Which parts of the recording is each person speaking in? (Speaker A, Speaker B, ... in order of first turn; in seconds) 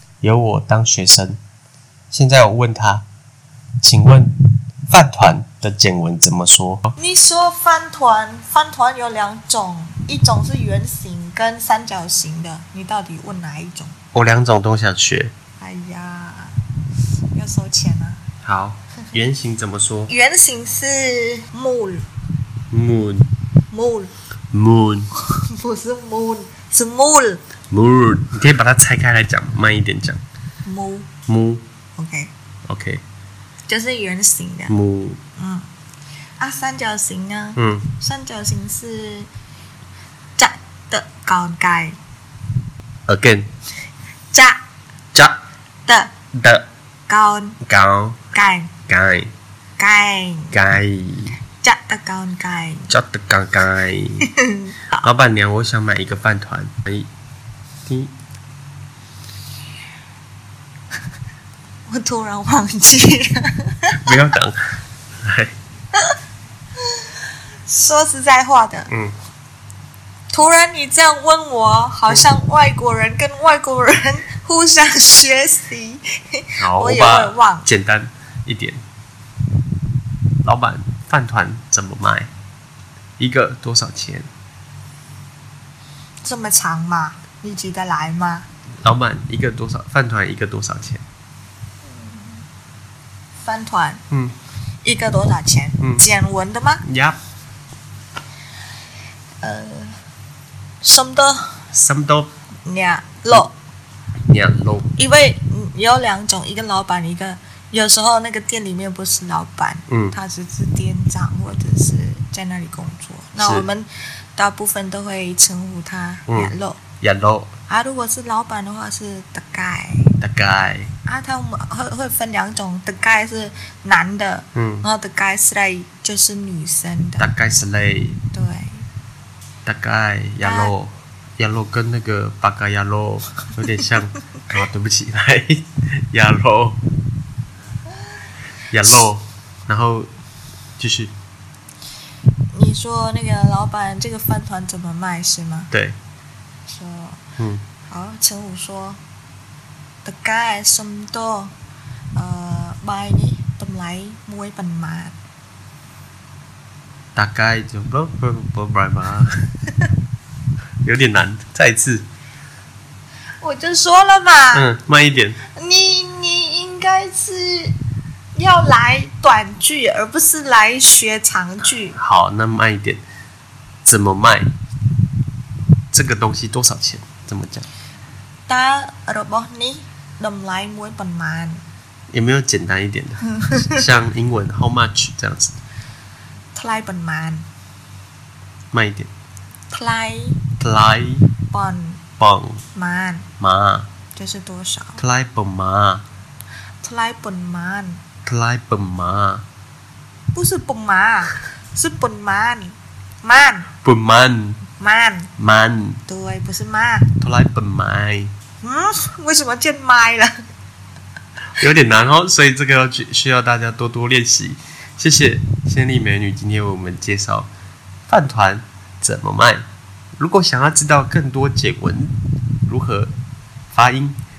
Speaker A: 0.2-1.4, 2.1-3.0, 3.8-4.3, 4.9-7.0, 14.1-15.3, 18.4-20.1, 22.7-23.3, 24.5-25.1, 27.7-30.2, 31.3-31.6, 32.7-33.0, 34.7-35.2, 37.6-37.9, 43.1-43.5, 46.3-46.7, 47.6-48.2, 48.9-49.3, 50.5-51.4, 52.9-54.3, 54.9-57.1, 57.9-58.1, 64.0-64.6, 65.2-65.5, 68.9-69.2, 76.6-78.8, 80.4-82.3, 83.2-84.3, 88.8-91.0, 96.8-97.2, 101.7-102.3, 104.3-104.9, 109.9-110.2, 113.4-113.7, 116.3-117.5, 120.2-120.9, 124.6-124.9, 127.2-128.2, 129.7-136.8, 138.7-140.1, 140.8-141.1, 145.7-146.0, 157.2-159.5, 160.8-162.1, 164.5-165.4, 171.9-173.0, 173.8-174.5, 175.9-177.7, 182.1-185.6, 188.7-189.1, 190.6-191.3, 192.2-192.6, 193.4-193.9, 195.0-196.0, 198.3-199.4, 203.8-204.6, 205.4-206.0, 207.2-208.3, 211.6-217.5, 218.1-219.7, 220.2-223.1, 223.7-224.2
Speaker B: 7.0-13.9, 15.6-16.6, 17.3-18.2, 20.1-22.1, 23.7-24.1, 25.2-27.4, 30.6-31.1, 32.0-32.3, 33.7-34.7, 35.4-35.7, 36.4-39.3, 40.4-42.0, 44.3-44.6, 45.9-46.1, 47.1-47.6, 48.3-48.7, 49.8-50.5, 51.6-52.9, 54.2-54.8, 61.9-64.2, 67.7-68.9, 70.3-77.7, 86.2-88.5, 91.8-92.4, 93.4-94.0, 94.8-96.8, 99.4-100.0, 100.8-101.6, 102.7-103.5, 105.0-116.8, 117.7-120.1, 121.0-127.3, 128.3-128.8, 130.4-130.7, 142.5-145.7, 146.7-147.2, 147.9-149.0, 150.1-151.5, 152.2-155.2, 163.4-164.7, 165.5-167.8, 168.4-172.0, 178.5-181.6, 183.4-183.8, 186.6-187.5, 189.7-190.4, 191.5-192.0, 192.8-193.3, 194.2-195.0, 196.8-198.0, 200.3-203.7, 204.8-205.3, 206.1-207.1, 208.6-210.3